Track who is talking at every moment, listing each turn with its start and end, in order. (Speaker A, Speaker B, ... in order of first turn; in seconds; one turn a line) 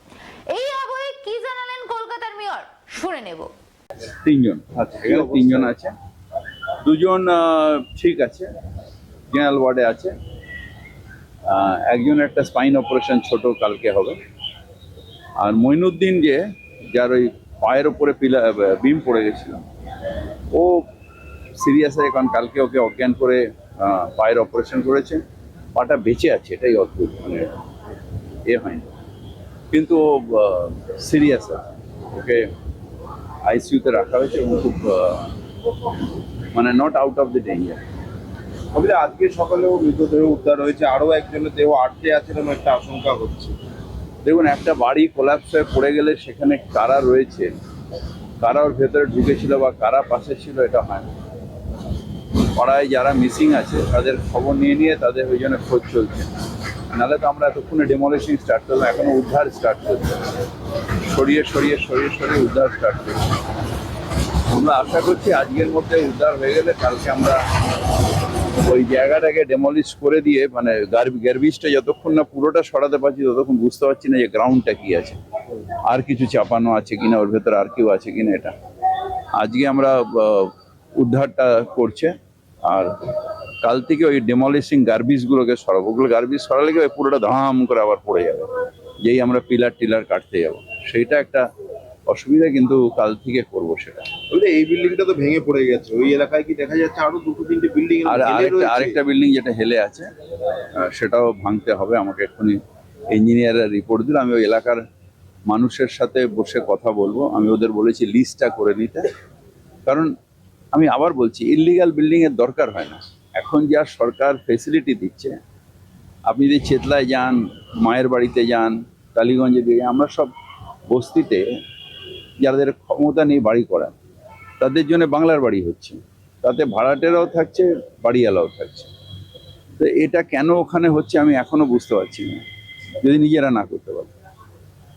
Speaker A: 0.5-3.5
Speaker B: 4.2-5.9
Speaker C: 5.0-5.7
Speaker B: 6.8-8.5
Speaker B: 9.3-10.1
Speaker B: 11.5-14.2
Speaker B: 15.4-19.6
Speaker B: 20.5-20.8
Speaker B: 21.6-25.2
Speaker B: 25.8-27.5
Speaker B: 28.5-28.9
Speaker B: 29.7-32.5
Speaker B: 33.5-35.3
Speaker B: 36.5-37.8
Speaker C: 38.7-43.6
Speaker B: 44.2-47.5
Speaker B: 48.4-51.1
Speaker B: 52.5-56.3
Speaker B: 56.9-60.3
Speaker B: 61.1-63.2
Speaker B: 64.5-67.4
Speaker B: 68.5-75.2
Speaker B: 75.8-78.5
Speaker B: 79.3-82.1
Speaker B: 82.7-83.0
Speaker B: 83.6-88.5
Speaker B: 89.0-91.5
Speaker B: 92.1-94.1
Speaker C: 94.3-99.0
Speaker B: 98.1-100.1
Speaker B: 100.7-102.6
Speaker B: 103.1-104.8
Speaker B: 105.5-109.1
Speaker B: 109.9-110.1
Speaker B: 110.7-115.4
Speaker B: 116.3-120.3
Speaker B: 120.9-121.5
Speaker B: 122.4-123.9
Speaker B: 124.6-128.9
Speaker B: 129.8-132.4
Speaker B: 133.0-134.1